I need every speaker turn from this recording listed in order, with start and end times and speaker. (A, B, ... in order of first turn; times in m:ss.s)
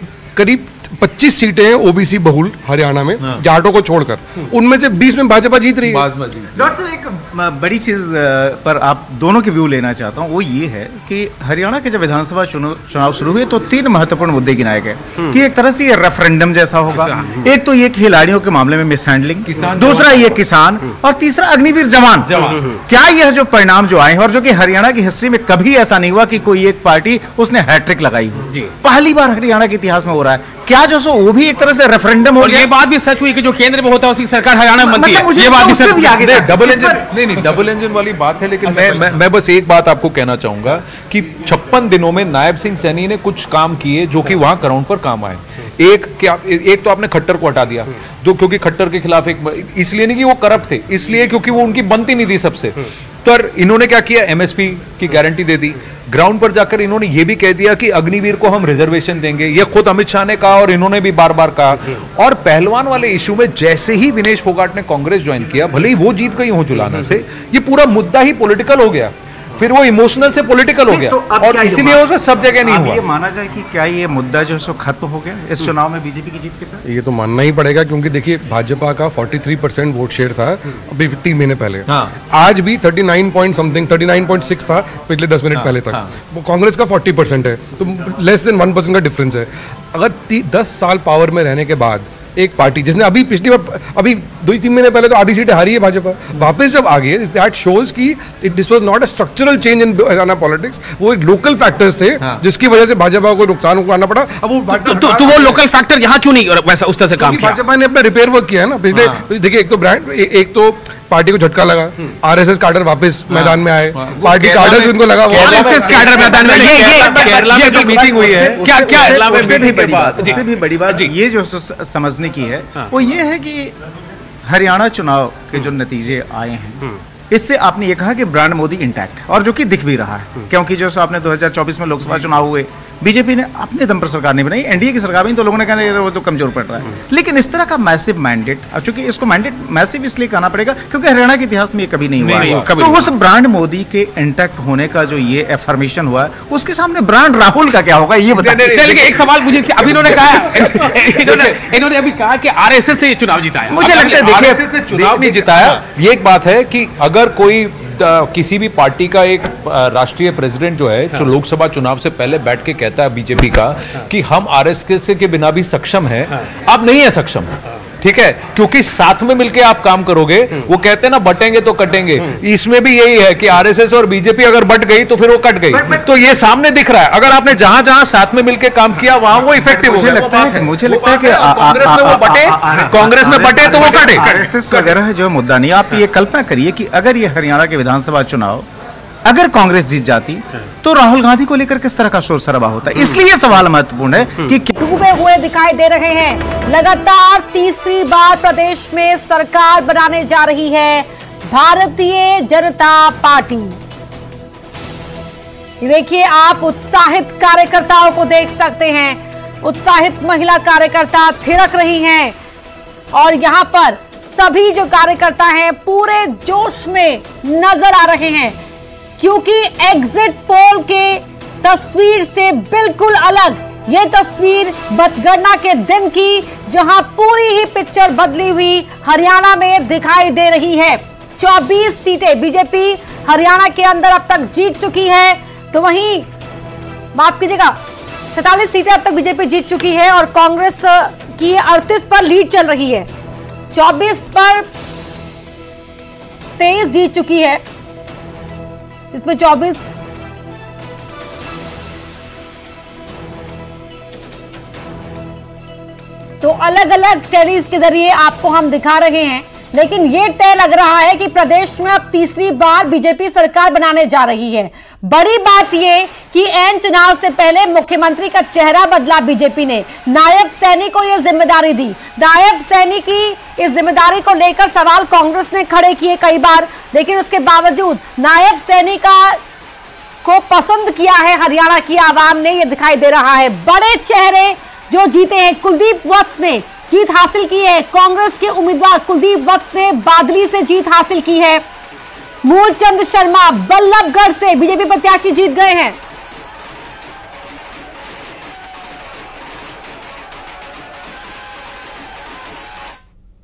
0:00.3-0:06.1 A
0:05.8-0:06.7 B
0:06.6-0:32.7 C
0:16.9-0:17.5 D
0:19.4-0:20.4 B
0:22.2-0:22.6 B
0:22.4-0:22.7 D
0:32.4-0:36.4 D
0:34.8-0:37.0 C
0:36.2-1:13.0 B
1:10.9-1:16.8 C
1:16.8-1:45.6 A
1:21.9-1:22.1 B
1:25.5-1:26.1 B
1:44.7-1:47.6 D
1:47.2-1:55.7 A
1:49.0-1:49.2 B
1:53.3-2:00.5 B
1:54.8-2:01.1 D
1:57.1-2:03.7 C
2:04.4-2:28.7 C
2:22.2-2:22.7 B
2:22.2-2:23.1 D
2:28.3-2:31.6 B
2:28.6-2:35.8 D
2:33.7-2:35.3 C
2:33.8-3:04.5 B
2:55.7-2:56.0 C
2:59.7-3:08.7 C
3:09.2-3:14.7 C
3:14.7-3:23.8 E
3:25.8-3:32.3 E
3:33.1-3:38.6 E
3:39.2-3:56.3 E
3:57.1-3:57.8 E
3:58.3-4:03.1 E
4:03.7-4:04.6 E
4:06.6-4:07.6 E
4:09.1-4:10.0 E
4:16.4-4:39.4 E
4:40.2-4:51.6 E
4:52.4-4:56.0 E